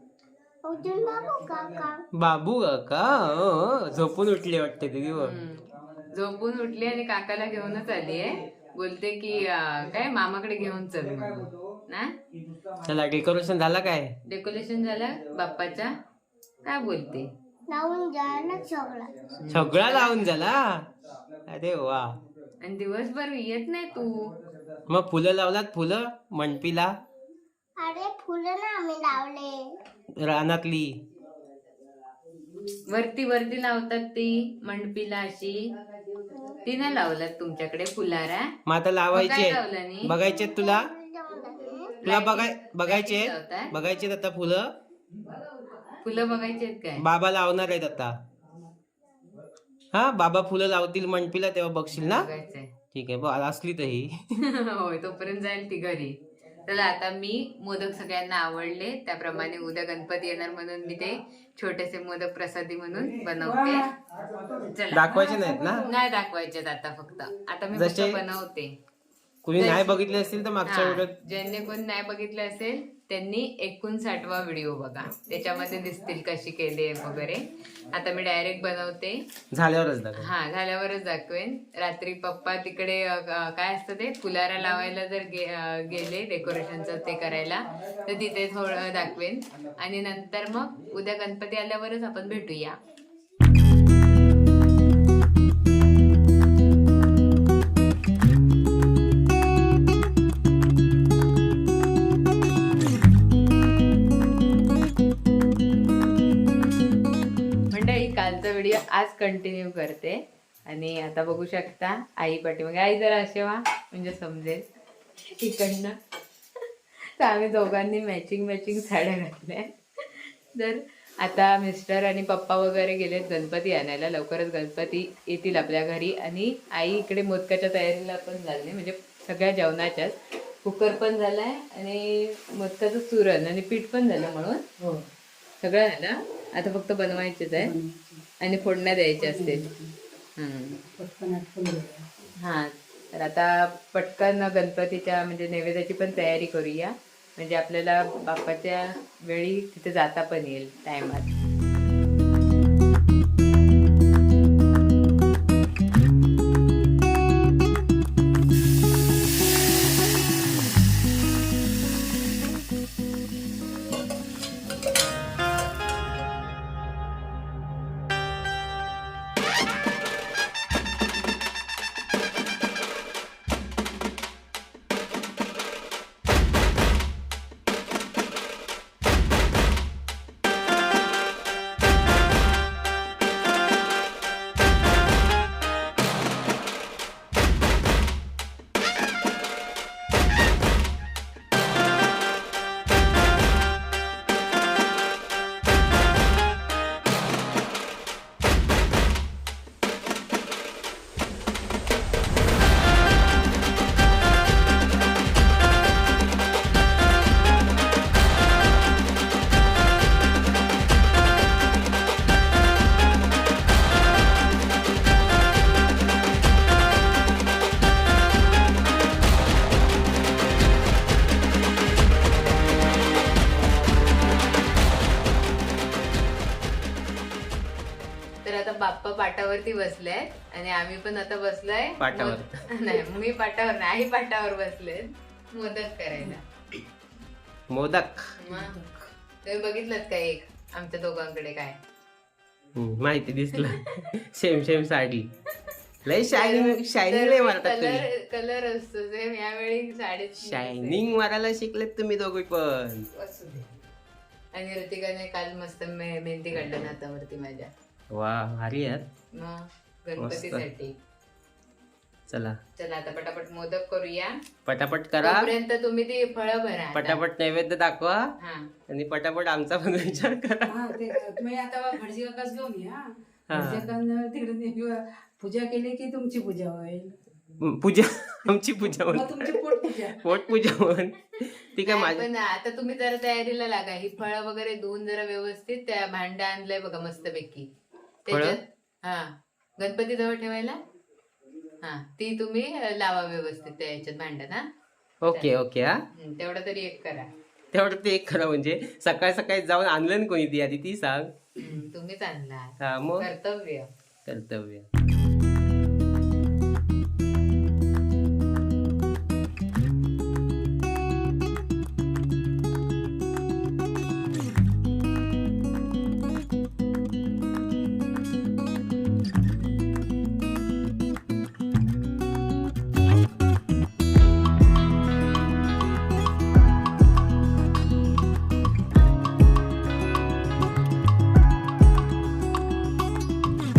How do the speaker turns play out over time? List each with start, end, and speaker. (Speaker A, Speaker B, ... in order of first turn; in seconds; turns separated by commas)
Speaker A: 0.7-2.0, Speaker B: 2.1-5.3, Speaker C: 5.2-12.1, Speaker B: 12.8-14.1, Speaker C: 14.2-15.9, Speaker C: 16.7-17.3, Speaker A: 17.7-19.1, Speaker C: 19.4-20.3, Speaker B: 19.5-20.9, Speaker B: 21.5-22.2, Speaker C: 22.6-24.4, Speaker B: 24.9-26.9, Speaker A: 27.8-29.8, Speaker B: 30.2-31.0, Speaker C: 32.9-35.7, Speaker A: 36.3-36.6, Speaker C: 36.6-38.5, Speaker B: 38.7-40.9, Speaker C: 39.1-40.2, Speaker A: 40.4-42.0, Speaker C: 42.0-43.7, Speaker B: 42.0-44.7, Speaker C: 46.0-47.1, Speaker B: 47.0-48.2, Speaker B: 49.9-52.3, Speaker C: 52.0-52.7, Speaker B: 52.9-54.2, Speaker C: 54.4-63.9, Speaker D: 63.4-64.0, Speaker D: 64.5-65.9, Speaker C: 64.7-65.2, Speaker B: 64.9-65.8, Speaker C: 65.8-68.8, Speaker B: 67.7-68.2, Speaker B: 69.4-71.2, Speaker C: 69.6-70.0, Speaker C: 70.7-79.3, Speaker B: 79.5-80.3, Speaker C: 80.2-92.8, Speaker C: 107.7-114.7, Speaker C: 115.4-116.0, Speaker C: 117.2-134.6, Speaker D: 134.8-135.1, Speaker C: 135.6-137.8, Speaker D: 137.6-138.3, Speaker C: 138.4-139.7, Speaker D: 139.2-139.9, Speaker C: 140.4-140.8, Speaker D: 140.9-142.1, Speaker C: 142.4-151.3, Speaker C: 228.4-236.4, Speaker B: 232.0-232.6, Speaker B: 237.7-238.3, Speaker C: 238.4-238.8, Speaker C: 239.4-241.8, Speaker B: 242.8-245.3, Speaker B: 246.1-248.1, Speaker C: 246.1-251.0, Speaker B: 250.4-253.1, Speaker C: 253.1-253.7, Speaker C: 254.5-257.7, Speaker B: 258.1-259.1, Speaker C: 259.3-260.9, Speaker B: 260.2-260.6, Speaker B: 262.3-262.6, Speaker C: 262.8-264.4, Speaker B: 264.7-265.5, Speaker C: 265.2-267.2, Speaker B: 266.9-268.2, Speaker C: 268.4-268.7, Speaker B: 268.9-271.2, Speaker D: 270.7-277.2, Speaker B: 273.5-273.9, Speaker B: 277.6-282.2, Speaker D: 279.1-280.2, Speaker C: 281.8-287.7, Speaker C: 288.3-290.8, Speaker B: 288.3-288.6, Speaker C: 291.8-294.7, Speaker B: 295.2-296.0, Speaker C: 296.1-297.3, Speaker B: 297.7-301.3, Speaker C: 301.6-303.9, Speaker B: 302.8-303.3, Speaker B: 304.3-304.9